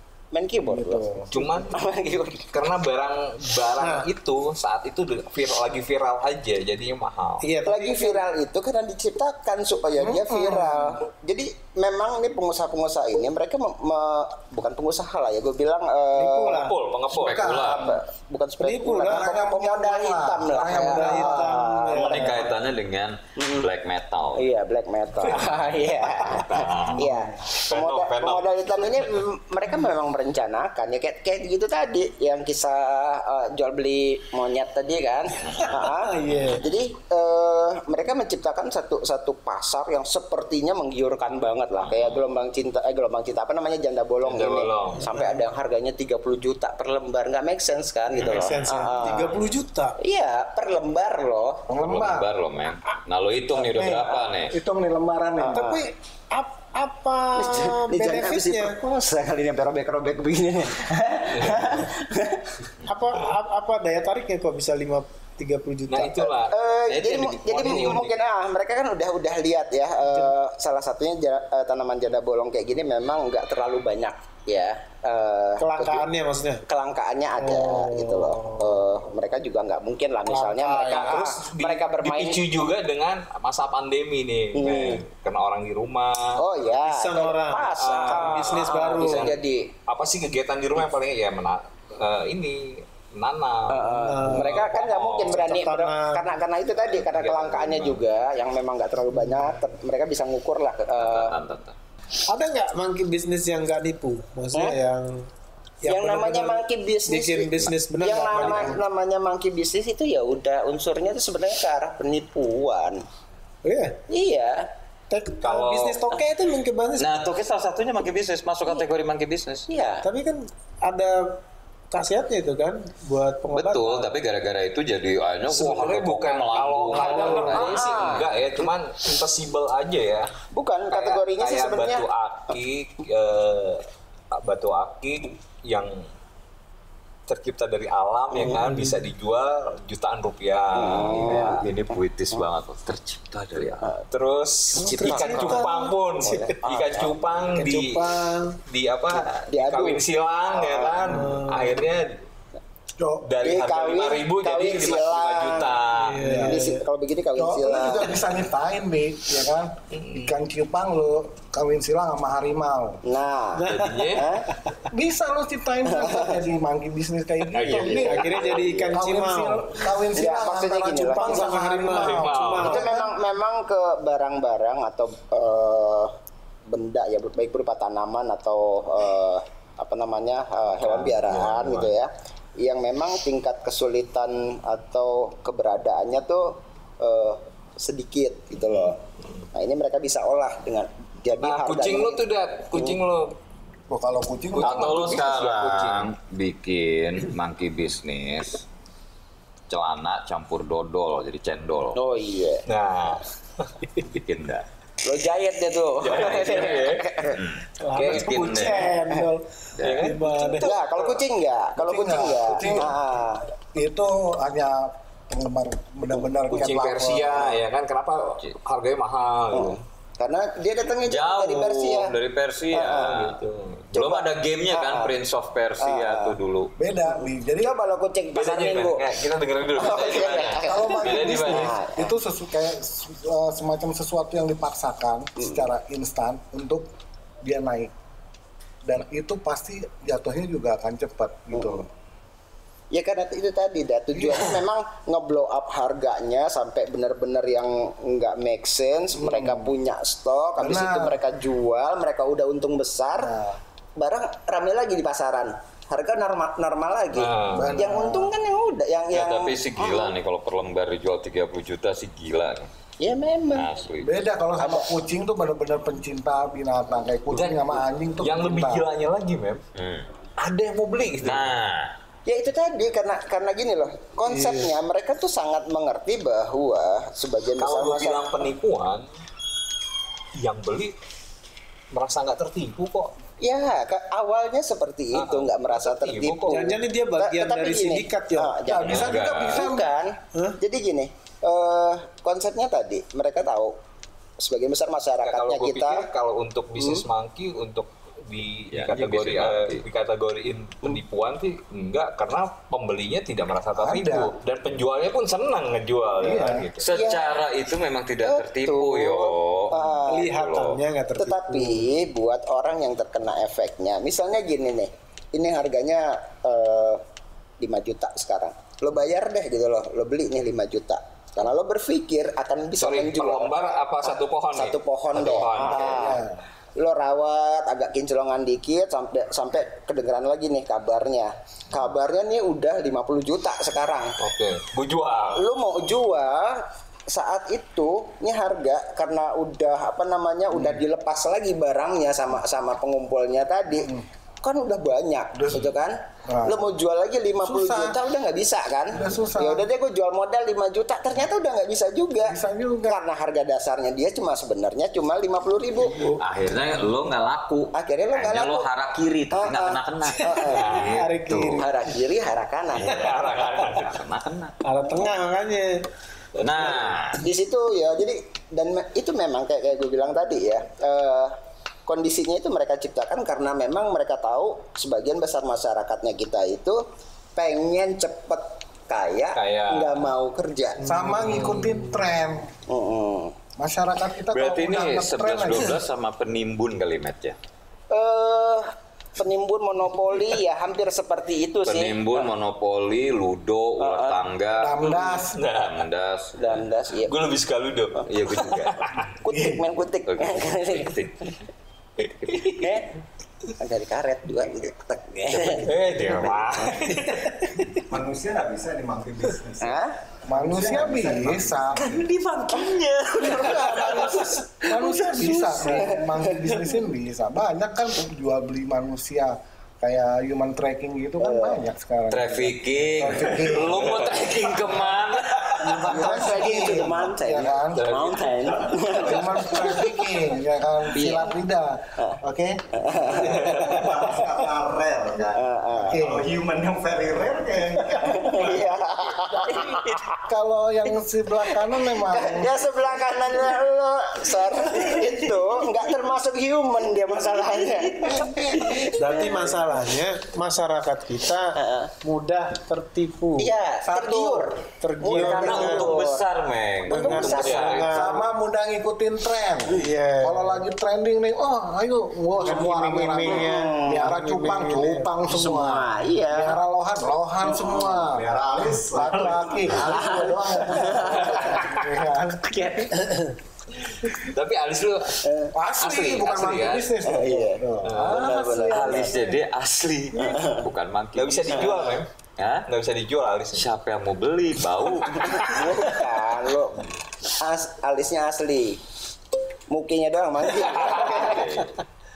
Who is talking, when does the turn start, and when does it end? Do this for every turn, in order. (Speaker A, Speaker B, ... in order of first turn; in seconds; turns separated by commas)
Speaker A: 0.3-2.5, Speaker B: 0.6-1.4, Speaker C: 1.3-1.8, Speaker C: 2.5-7.5, Speaker D: 3.8-4.1, Speaker D: 7.4-8.2, Speaker A: 7.7-16.7, Speaker B: 10.0-11.0, Speaker D: 16.2-16.8, Speaker C: 16.5-17.6, Speaker B: 17.1-18.0, Speaker E: 17.1-18.0, Speaker A: 17.6-22.5, Speaker D: 18.6-19.3, Speaker B: 19.1-21.6, Speaker D: 20.7-22.5, Speaker E: 21.9-24.5, Speaker A: 23.4-23.7, Speaker A: 24.4-49.4, Speaker E: 25.4-27.1, Speaker C: 27.6-29.1, Speaker E: 35.4-35.9, Speaker D: 35.8-36.7, Speaker E: 41.8-42.2, Speaker C: 44.2-45.1, Speaker D: 45.0-45.5, Speaker D: 48.2-50.0, Speaker A: 50.0-51.7, Speaker B: 51.7-52.3, Speaker E: 51.8-54.5, Speaker B: 53.5-55.9, Speaker A: 55.4-55.8, Speaker D: 55.5-58.8, Speaker A: 57.4-62.5, Speaker C: 61.3-61.8, Speaker D: 62.9-66.3, Speaker C: 65.9-68.1, Speaker A: 66.5-76.1, Speaker D: 70.1-70.3, Speaker D: 75.6-76.6, Speaker A: 76.7-82.4, Speaker D: 77.4-78.9, Speaker D: 80.3-81.3, Speaker C: 80.9-86.4, Speaker A: 84.5-85.0, Speaker A: 86.4-89.7, Speaker D: 86.8-89.4, Speaker C: 87.8-95.4, Speaker A: 93.7-101.4, Speaker D: 93.9-94.7, Speaker D: 95.2-96.4, Speaker C: 96.8-98.0, Speaker D: 99.1-99.5, Speaker E: 101.0-101.8, Speaker D: 102.3-105.3, Speaker D: 105.8-108.8, Speaker A: 105.9-113.0, Speaker D: 113.7-114.0, Speaker A: 114.1-114.7, Speaker D: 115.1-117.2, Speaker C: 115.4-116.0, Speaker E: 117.0-119.7, Speaker A: 119.7-120.1, Speaker D: 120.0-124.1, Speaker E: 123.5-128.4, Speaker C: 125.5-130.3, Speaker D: 126.9-127.7, Speaker A: 127.0-128.3, Speaker A: 130.5-132.1, Speaker C: 130.9-136.1, Speaker C: 137.3-141.6, Speaker D: 138.5-139.0, Speaker A: 140.8-141.7, Speaker E: 140.9-143.9, Speaker C: 144.1-148.1, Speaker A: 144.7-147.1, Speaker D: 144.8-146.6, Speaker D: 147.5-148.6, Speaker C: 148.7-152.2, Speaker A: 149.5-151.3, Speaker D: 151.0-151.8, Speaker B: 153.0-153.3, Speaker C: 153.2-156.3, Speaker A: 153.4-155.8, Speaker D: 155.9-156.9, Speaker B: 156.2-156.6, Speaker A: 156.4-158.2, Speaker B: 157.4-163.0, Speaker C: 159.9-160.3, Speaker A: 163.1-164.5, Speaker D: 163.6-164.2, Speaker C: 163.7-164.3, Speaker B: 164.9-168.4, Speaker A: 165.9-166.4, Speaker C: 167.5-168.6, Speaker D: 167.6-169.7, Speaker A: 167.7-168.9, Speaker B: 168.9-173.1, Speaker A: 170.1-171.8, Speaker D: 171.1-173.0, Speaker C: 171.9-172.8, Speaker A: 172.6-176.2, Speaker A: 176.7-189.0, Speaker C: 180.8-181.9, Speaker A: 189.5-193.0, Speaker C: 191.4-193.3, Speaker B: 193.9-195.2, Speaker C: 194.6-196.1, Speaker E: 194.6-198.6, Speaker E: 199.7-202.0, Speaker A: 201.9-202.7, Speaker C: 202.7-203.8, Speaker E: 204.0-204.7, Speaker A: 205.0-207.4, Speaker C: 206.0-207.1, Speaker E: 206.1-209.0, Speaker D: 207.8-210.8, Speaker C: 207.9-209.0, Speaker E: 209.8-210.1, Speaker C: 209.8-211.2, Speaker A: 210.6-213.5, Speaker B: 211.8-213.0, Speaker B: 213.7-217.6, Speaker C: 216.5-219.8, Speaker A: 219.5-222.1, Speaker E: 221.1-223.4, Speaker A: 222.7-223.3, Speaker C: 222.9-223.9, Speaker E: 223.9-226.7, Speaker A: 223.9-225.2, Speaker A: 225.8-226.4, Speaker B: 226.8-227.8, Speaker A: 227.1-229.1, Speaker C: 228.3-230.6, Speaker A: 229.8-232.1, Speaker E: 229.9-231.8, Speaker B: 230.6-236.9, Speaker B: 237.4-237.9, Speaker B: 238.8-241.9, Speaker A: 241.5-241.9, Speaker A: 242.9-253.3, Speaker B: 244.2-244.5, Speaker B: 249.2-249.7, Speaker B: 250.6-251.2, Speaker B: 253.1-253.6, Speaker A: 254.0-260.1, Speaker C: 257.1-257.8, Speaker B: 257.5-258.3, Speaker E: 259.1-262.7, Speaker A: 263.0-263.7, Speaker E: 263.5-264.2, Speaker B: 264.0-268.9, Speaker A: 264.6-264.9, Speaker C: 267.3-269.6, Speaker E: 269.8-270.1, Speaker C: 270.4-271.6, Speaker E: 271.2-272.0, Speaker A: 272.3-278.3, Speaker D: 274.3-274.7, Speaker C: 277.6-279.1, Speaker C: 280.4-280.9, Speaker C: 281.9-283.1, Speaker A: 283.4-293.8, Speaker C: 285.1-286.8, Speaker D: 286.5-288.6, Speaker B: 288.6-289.9, Speaker E: 288.8-289.7, Speaker A: 294.4-296.1, Speaker C: 295.2-306.9, Speaker A: 296.8-297.0, Speaker E: 298.7-299.8, Speaker B: 303.8-304.4, Speaker B: 306.2-306.7, Speaker E: 306.8-310.8, Speaker A: 306.9-307.4, Speaker A: 308.2-310.4, Speaker D: 310.1-311.9, Speaker A: 311.2-317.0, Speaker A: 317.6-323.5, Speaker C: 322.8-326.1, Speaker A: 324.1-326.2, Speaker B: 325.6-326.4, Speaker A: 326.8-334.2, Speaker C: 334.2-335.4, Speaker A: 335.4-356.1, Speaker B: 343.8-344.1, Speaker B: 345.4-345.7, Speaker B: 346.3-346.7, Speaker B: 347.4-348.0, Speaker B: 348.9-349.7, Speaker B: 352.2-353.0, Speaker E: 356.0-361.6, Speaker A: 357.7-358.7, Speaker A: 359.3-360.7, Speaker D: 360.3-361.7, Speaker C: 360.5-361.0, Speaker A: 361.6-363.1, Speaker E: 362.7-364.6, Speaker C: 362.8-363.9, Speaker D: 364.6-365.9, Speaker E: 366.4-367.2, Speaker A: 367.1-376.8, Speaker A: 377.4-380.8, Speaker C: 379.4-380.1, Speaker D: 380.8-382.1, Speaker B: 380.8-382.6, Speaker A: 382.7-383.4, Speaker B: 383.6-385.8, Speaker E: 384.3-387.4, Speaker A: 387.9-392.0, Speaker E: 391.6-396.6, Speaker A: 393.8-394.3, Speaker B: 394.6-395.4, Speaker C: 395.1-395.7, Speaker A: 396.4-397.2, Speaker C: 397.1-399.1, Speaker E: 398.0-398.9, Speaker A: 399.2-401.3, Speaker E: 400.1-401.3, Speaker C: 402.0-402.7, Speaker A: 402.4-402.9, Speaker A: 403.6-405.7, Speaker E: 405.3-406.4, Speaker C: 405.6-407.4, Speaker A: 406.6-406.9, Speaker F: 407.9-412.1, Speaker A: 409.6-410.0, Speaker B: 410.3-411.9, Speaker C: 411.9-414.1, Speaker A: 412.5-414.4, Speaker B: 413.2-424.1, Speaker C: 414.8-415.6, Speaker D: 415.5-415.9, Speaker A: 415.6-416.8, Speaker A: 421.2-421.7, Speaker E: 422.1-426.0, Speaker B: 425.6-428.0, Speaker A: 425.8-430.0, Speaker C: 427.9-428.3, Speaker F: 428.3-429.8, Speaker B: 428.9-433.1, Speaker A: 430.9-431.4, Speaker A: 432.7-434.2, Speaker F: 433.3-438.7, Speaker A: 435.4-436.0, Speaker B: 435.8-436.3, Speaker A: 437.9-440.2, Speaker B: 440.2-442.7, Speaker A: 441.5-449.8, Speaker B: 447.9-449.0, Speaker D: 448.9-453.5, Speaker A: 451.5-451.9, Speaker A: 453.4-456.3, Speaker B: 453.8-454.5, Speaker D: 454.8-456.0, Speaker E: 455.1-458.2, Speaker B: 455.2-455.8, Speaker A: 456.9-458.1, Speaker D: 456.9-458.2, Speaker B: 457.9-468.2, Speaker D: 459.7-460.6, Speaker D: 462.4-465.1, Speaker A: 463.2-464.2, Speaker A: 465.3-466.6, Speaker A: 467.4-468.0, Speaker F: 468.0-470.2, Speaker B: 468.8-472.7, Speaker A: 469.8-471.8, Speaker A: 472.4-473.3, Speaker C: 474.0-475.2, Speaker A: 475.2-475.5, Speaker B: 475.5-479.2, Speaker E: 475.8-476.8, Speaker C: 476.3-476.7, Speaker A: 477.0-479.1, Speaker C: 477.8-478.4, Speaker E: 478.6-482.7, Speaker A: 480.2-480.7, Speaker C: 481.1-482.1, Speaker A: 481.5-482.0, Speaker C: 482.7-483.7, Speaker E: 483.6-485.7, Speaker A: 485.1-488.8, Speaker A: 489.7-491.7, Speaker E: 490.7-491.7